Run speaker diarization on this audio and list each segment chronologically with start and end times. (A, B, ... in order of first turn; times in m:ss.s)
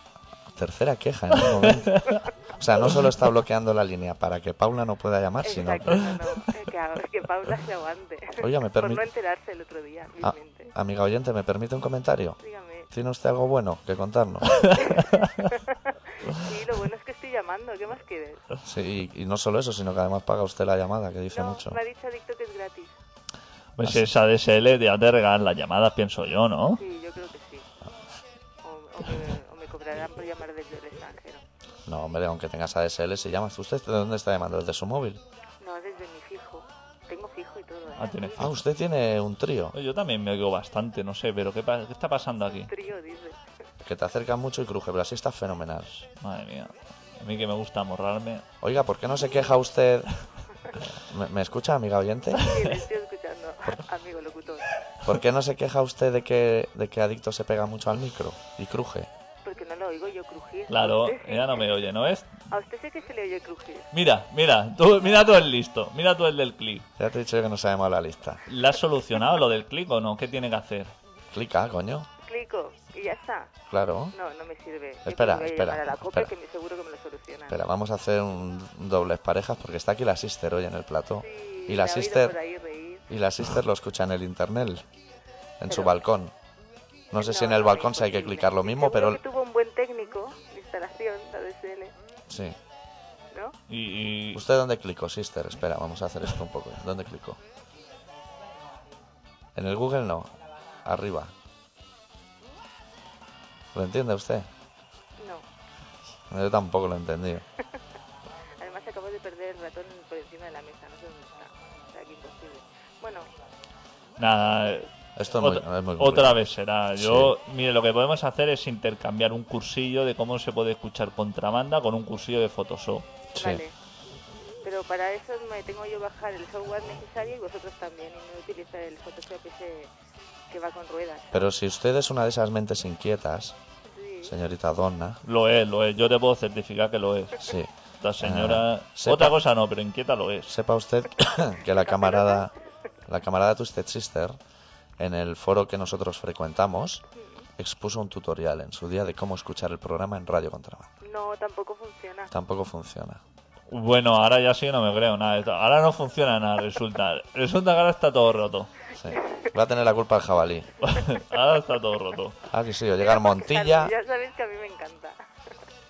0:00.5-0:06.1 A
0:01.6-0:02.2 B
0:05.4-0:10.7 C
0:08.4-0:09.0 A
0:10.2-0:12.4 A
0:12.4-0:12.9 C
0:12.9-0:14.6 A
0:14.8-0:18.4 C
0:18.6-0:21.8 A
0:21.3-0:22.9 C
0:23.8-0:26.8 B
0:26.8-0:27.7 C
0:28.6-0:31.4 C
0:31.9-0:35.2 A
0:35.6-0:38.4 C
0:38.0-0:38.5 B
0:38.4-0:39.7 A
0:39.7-0:42.7 B
0:42.6-0:43.4 C
0:43.8-0:46.0 A
0:46.1-0:48.4 B
0:48.6-0:50.1 A
0:50.9-0:52.5 A
0:52.3-0:54.7 C
0:52.4-0:52.7 B
0:55.0-0:59.1 A
0:59.4-1:01.8 C
1:00.7-1:02.3 B
1:02.5-1:03.9 C
1:03.9-1:06.9 B
1:07.0-1:08.4 A
1:08.5-1:10.9 B
1:11.3-1:12.1 A
1:12.2-1:13.5 C
1:13.7-1:14.1 A
1:14.1-1:17.6 C
1:15.0-1:16.3 A
1:17.5-1:22.4 A
1:21.2-1:23.1 C
1:23.1-1:24.8 A
1:25.6-1:26.3 A
1:27.1-1:29.2 A
1:27.2-1:31.9 C
1:32.3-1:32.6 A
1:33.7-1:34.4 B
1:34.3-1:37.4 A
1:39.5-1:41.3 A
1:43.7-1:44.5 A
1:45.2-1:45.4 C
1:46.3-1:47.4 A
1:48.6-1:53.3 C
1:54.2-2:03.1 B
1:55.2-1:56.4 A
1:57.0-1:57.4 A
2:03.3-2:03.6 A
2:03.4-2:03.7 C
2:04.6-2:09.9 C
2:10.5-2:11.5 C
2:11.3-2:13.6 A
2:13.8-2:14.3 C
2:14.2-2:15.2 A
2:15.2-2:20.5 B
2:17.4-2:19.4 A
2:20.5-2:22.5 A
2:21.7-2:22.5 C
2:23.1-2:24.4 A
2:25.0-2:27.0 A
2:27.1-2:27.4 C
2:27.6-2:30.9 A
2:31.0-2:32.3 C
2:32.3-2:33.2 A
2:33.7-2:38.7 B
2:39.0-2:40.7 A
2:39.2-2:39.4 C
2:40.8-2:42.4 B
2:42.5-2:43.9 A
2:43.0-2:45.2 C